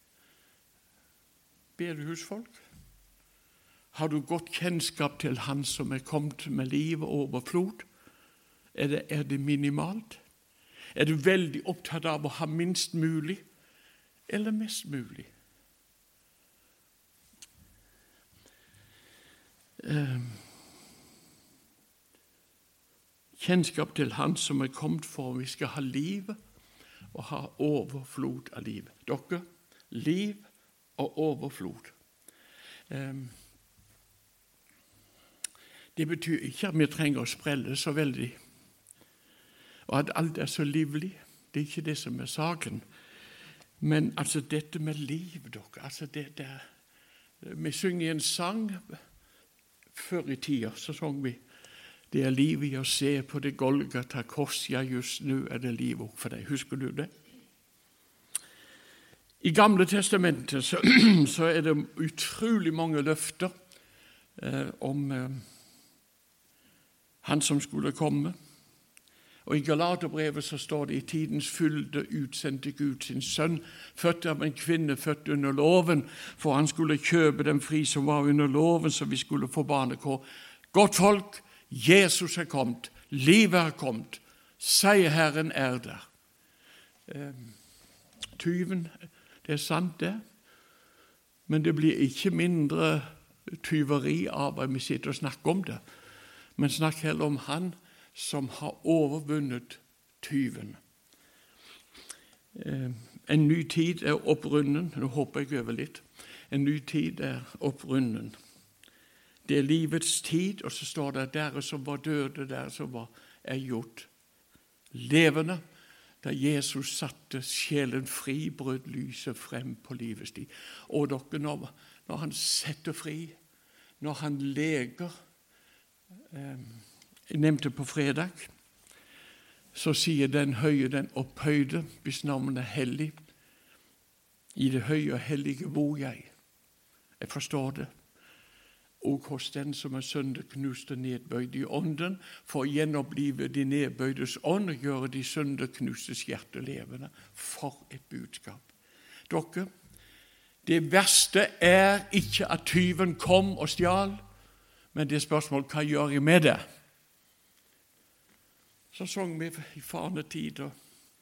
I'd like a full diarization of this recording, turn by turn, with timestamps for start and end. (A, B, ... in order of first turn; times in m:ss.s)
0:01.8-0:02.6 A
0:03.9-0:07.8 A
0:08.7-0:10.2 A
0:10.9-0:13.4 A
0:14.3-0:15.3 A
0:19.8-0:20.5 A
0:23.4-0:26.4 A
0:27.1-0:30.4 A
0:31.0-0:31.9 A
0:32.9-0:33.4 A
0:36.0-0:38.4 A
0:39.9-0:42.8 A
0:43.8-0:46.6 A
0:47.4-0:49.0 A
0:49.9-0:51.4 A
0:52.1-0:57.1 A
0:59.4-1:03.5 A
1:04.4-1:05.4 A
1:07.2-1:08.3 A
1:09.4-1:26.0 A
1:27.1-1:27.6 A
1:28.4-1:30.2 A
1:31.5-1:35.8 A
1:36.6-1:40.8 A
1:42.5-1:48.3 A
1:49.4-1:54.1 A
1:54.9-1:55.6 A
1:56.2-2:03.4 A
2:04.0-2:05.1 A
2:06.3-2:08.5 A
2:09.7-2:13.1 A
2:14.5-2:16.3 A
2:17.2-2:17.9 A
2:19.0-2:28.6 A
2:29.3-2:29.7 A
2:30.6-2:34.2 A
2:34.9-2:36.6 A
2:38.9-2:40.7 A